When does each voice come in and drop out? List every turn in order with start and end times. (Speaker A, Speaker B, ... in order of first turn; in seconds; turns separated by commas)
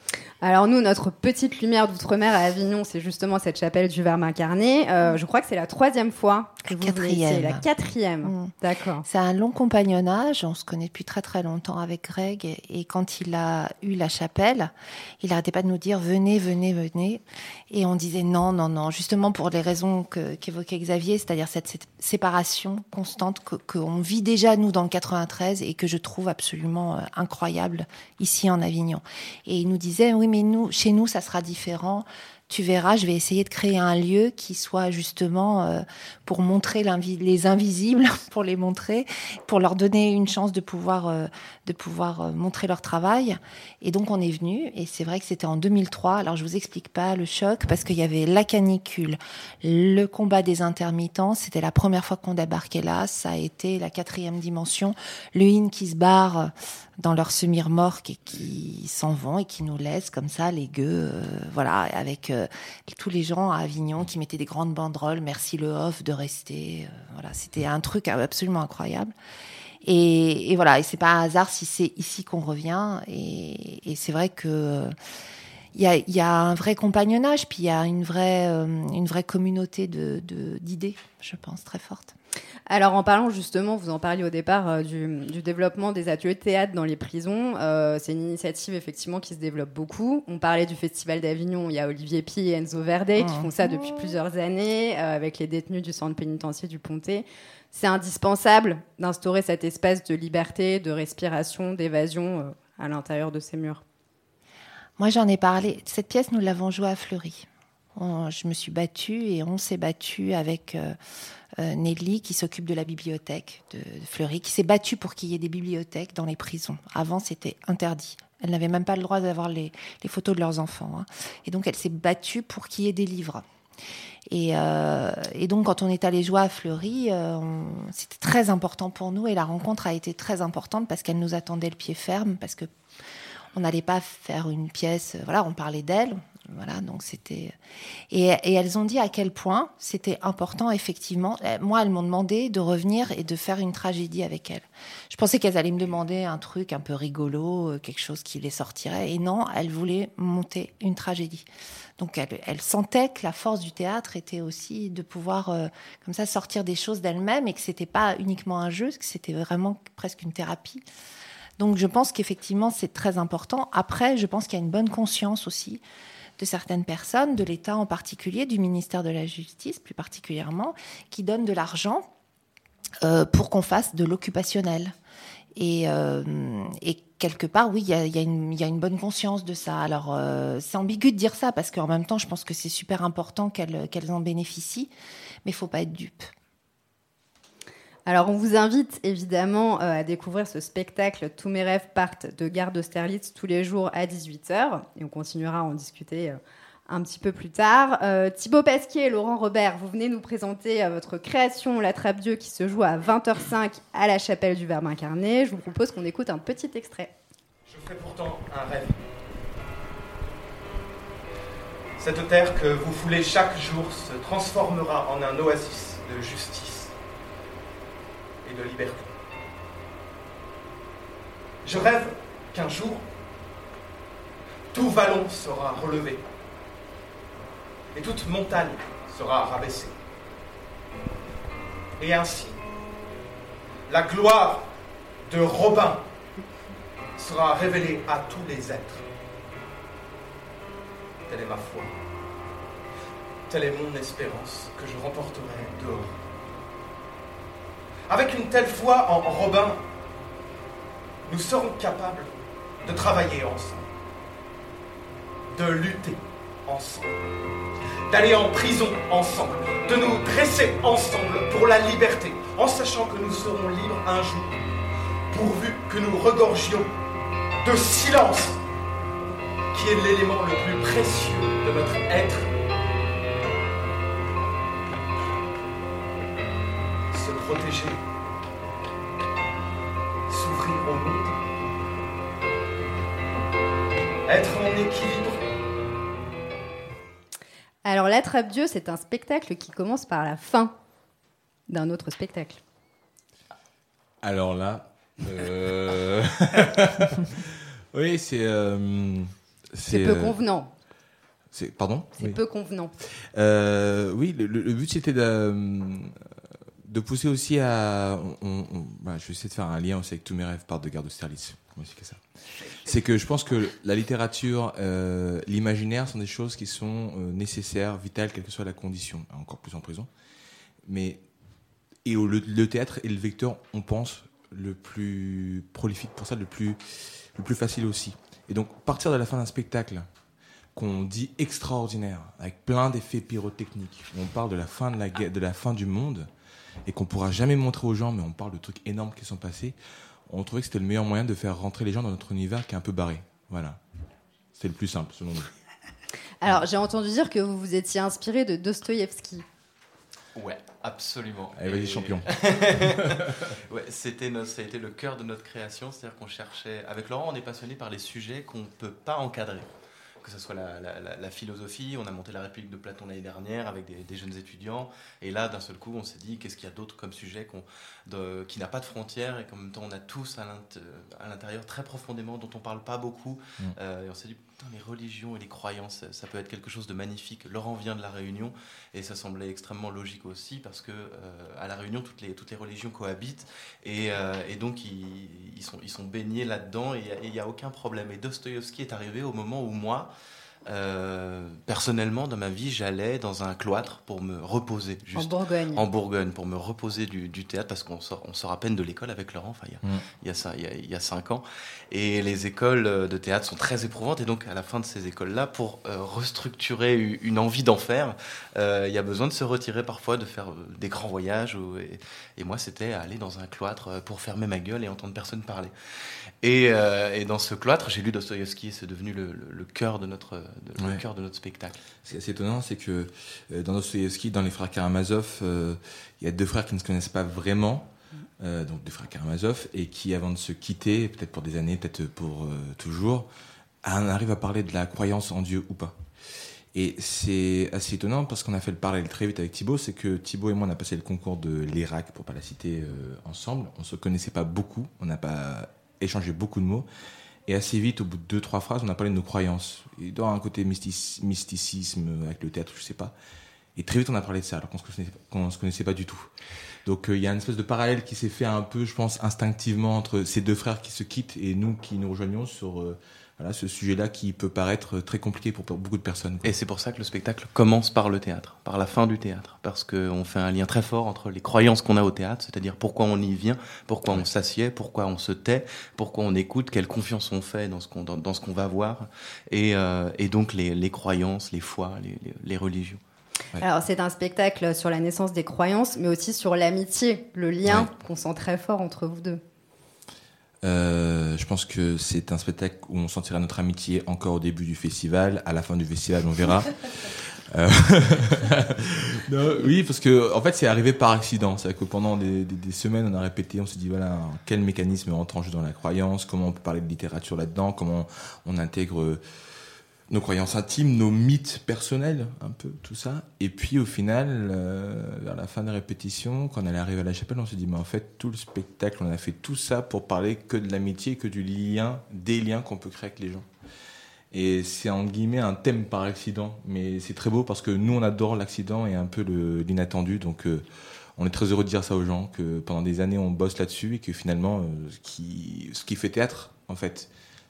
Speaker A: 0.4-9.0, Speaker B: 6.6-7.7, Speaker B: 8.2-8.5, Speaker B: 9.0-69.1, Speaker B: 69.8-74.9, Speaker B: 75.7-82.1, Speaker A: 82.7-103.8, Speaker B: 93.2-94.0, Speaker B: 105.0-111.0, Speaker B: 111.6-123.4, Speaker B: 124.3-132.7, Speaker B: 133.5-137.5, Speaker B: 138.1-151.5, Speaker B: 152.0-160.8, Speaker B: 161.6-165.8, Speaker B: 166.4-172.1, Speaker B: 173.0-174.9, Speaker B: 175.6-184.9, Speaker B: 185.4-186.3, Speaker A: 188.1-207.1, Speaker C: 207.7-209.0, Speaker C: 212.0-216.9, Speaker C: 218.4-219.1, Speaker C: 221.6-223.1, Speaker C: 224.7-226.2, Speaker C: 227.9-229.9, Speaker C: 232.0-232.6, Speaker C: 233.9-234.7, Speaker C: 235.3-236.1, Speaker C: 237.2-239.1, Speaker C: 241.3-241.9, Speaker C: 243.5-246.2, Speaker C: 248.1-249.8, Speaker C: 251.2-252.3, Speaker C: 252.8-253.9, Speaker C: 255.5-257.1, Speaker C: 258.1-264.6, Speaker C: 265.3-266.9, Speaker C: 267.6-268.6, Speaker C: 269.7-272.5, Speaker C: 277.1-278.0, Speaker C: 280.3-281.4, Speaker C: 284.3-285.4, Speaker A: 287.8-290.7, Speaker A: 291.7-292.6, Speaker D: 294.2-300.4, Speaker A: 299.9-300.7, Speaker D: 301.5-302.4, Speaker A: 302.2-302.9, Speaker D: 303.2-306.3, Speaker D: 306.8-312.2, Speaker D: 312.8-320.1, Speaker D: 320.9-321.2, Speaker D: 322.0-330.1, Speaker D: 330.7-336.3, Speaker D: 336.9-339.8, Speaker D: 340.3-343.8, Speaker D: 344.6-345.5, Speaker A: 346.4-349.4, Speaker E: 350.4-359.7, Speaker D: 351.6-353.5, Speaker E: 360.2-390.1, Speaker E: 390.7-415.7, Speaker A: 395.1-395.8, Speaker E: 416.4-421.8, Speaker D: 422.0-433.3, Speaker D: 433.8-436.0, Speaker D: 436.7-446.9, Speaker D: 447.4-453.1, Speaker D: 453.8-456.3, Speaker D: 456.8-466.5, Speaker E: 466.4-483.0, Speaker A: 483.6-489.4, Speaker D: 487.6-487.9, Speaker D: 490.6-509.2, Speaker D: 510.1-523.5, Speaker D: 524.3-530.6, Speaker D: 531.2-537.1